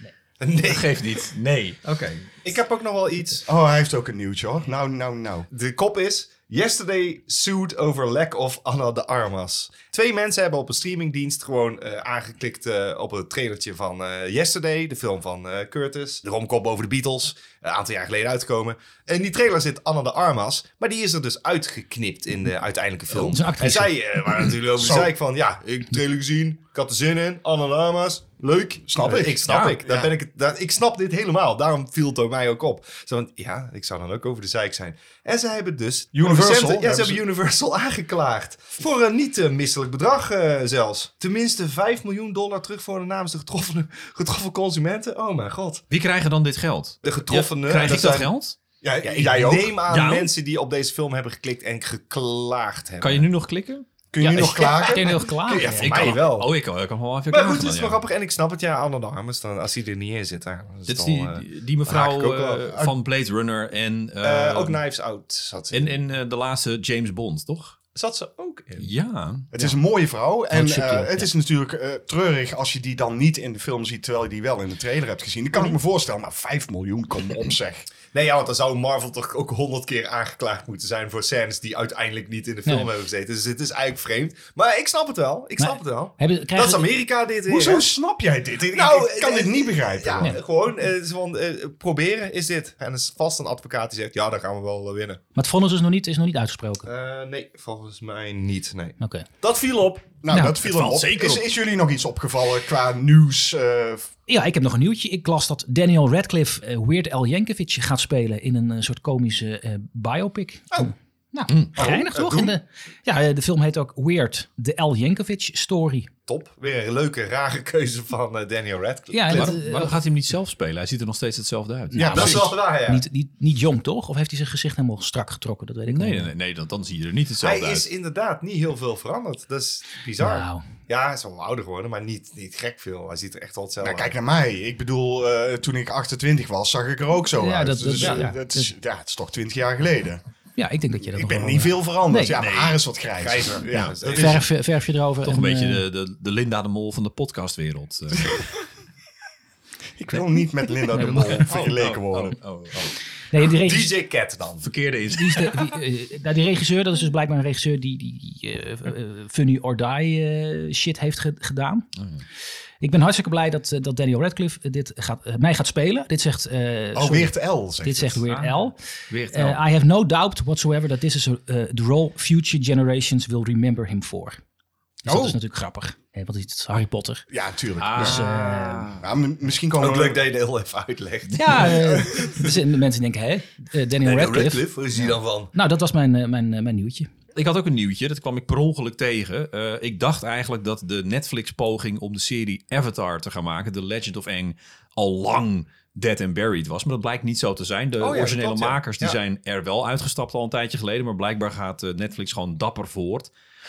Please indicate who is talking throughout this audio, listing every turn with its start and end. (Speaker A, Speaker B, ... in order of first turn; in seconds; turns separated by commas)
Speaker A: 0.4-1.3, Speaker B: 0.6-2.4, Speaker A: 2.4-3.5, Speaker C: 3.5-5.5, Speaker A: 5.5-45.8, Speaker D: 23.1-23.9, Speaker C: 24.7-25.1, Speaker C: 28.4-30.1, Speaker B: 29.5-29.8, Speaker C: 36.1-37.2, Speaker B: 45.9-48.5, Speaker A: 47.0-48.3, Speaker C: 48.8-49.8, Speaker A: 49.0-53.3, Speaker B: 49.9-50.3, Speaker B: 53.0-53.9, Speaker C: 54.1-55.2, Speaker D: 54.2-56.0, Speaker A: 54.3-56.5, Speaker B: 55.6-58.0, Speaker A: 57.3-62.9, Speaker B: 60.9-64.8, Speaker A: 64.2-66.0, Speaker B: 65.7-67.8, Speaker A: 67.9-68.9, Speaker B: 68.8-69.7, Speaker C: 69.5-77.9, Speaker D: 70.5-71.3, Speaker A: 78.1-87.9, Speaker D: 85.6-86.8, Speaker C: 87.5-90.4, Speaker A: 88.6-95.2, Speaker D: 95.3-96.9, Speaker A: 96.8-100.0, Speaker D: 99.0-99.2, Speaker C: 100.0-104.1, Speaker D: 100.3-100.6, Speaker B: 100.6-101.4, Speaker D: 104.3-116.1, Speaker A: 111.7-112.5, Speaker A: 116.3-119.6, Speaker D: 119.1-120.0, Speaker B: 119.3-122.4, Speaker C: 121.9-122.5, Speaker D: 122.0-126.3, Speaker A: 122.1-123.0, Speaker B: 125.8-127.9, Speaker A: 127.4-134.1, Speaker D: 130.2-130.6, Speaker C: 133.8-140.2, Speaker D: 137.4-138.7, Speaker A: 138.0-138.3, Speaker D: 140.6-142.4, Speaker C: 141.1-144.4, Speaker B: 142.4-142.8, Speaker A: 143.2-144.4, Speaker D: 144.1-145.8, Speaker B: 145.2-148.5, Speaker C: 150.0-152.4, Speaker D: 150.9-151.5, Speaker B: 151.2-152.9, Speaker D: 153.3-153.9, Speaker A: 153.6-154.7, Speaker B: 154.6-155.7, Speaker D: 155.1-161.9, Speaker B: 161.9-162.2, Speaker D: 162.8-168.8, Speaker C: 166.9-168.2, Speaker B: 168.3-168.6, Speaker B: 169.1-169.6, Speaker D: 169.3-174.4, Speaker D: 175.0-177.2, Speaker C: 175.1-175.4, Speaker C: 177.3-180.2, Speaker B: 177.8-179.0, Speaker D: 178.0-178.9, Speaker A: 179.8-182.5, Speaker D: 181.3-184.6, Speaker C: 181.7-182.1, Speaker A: 184.0-185.5, Speaker D: 185.5-187.1, Speaker B: 187.3-203.3, Speaker A: 198.0-199.2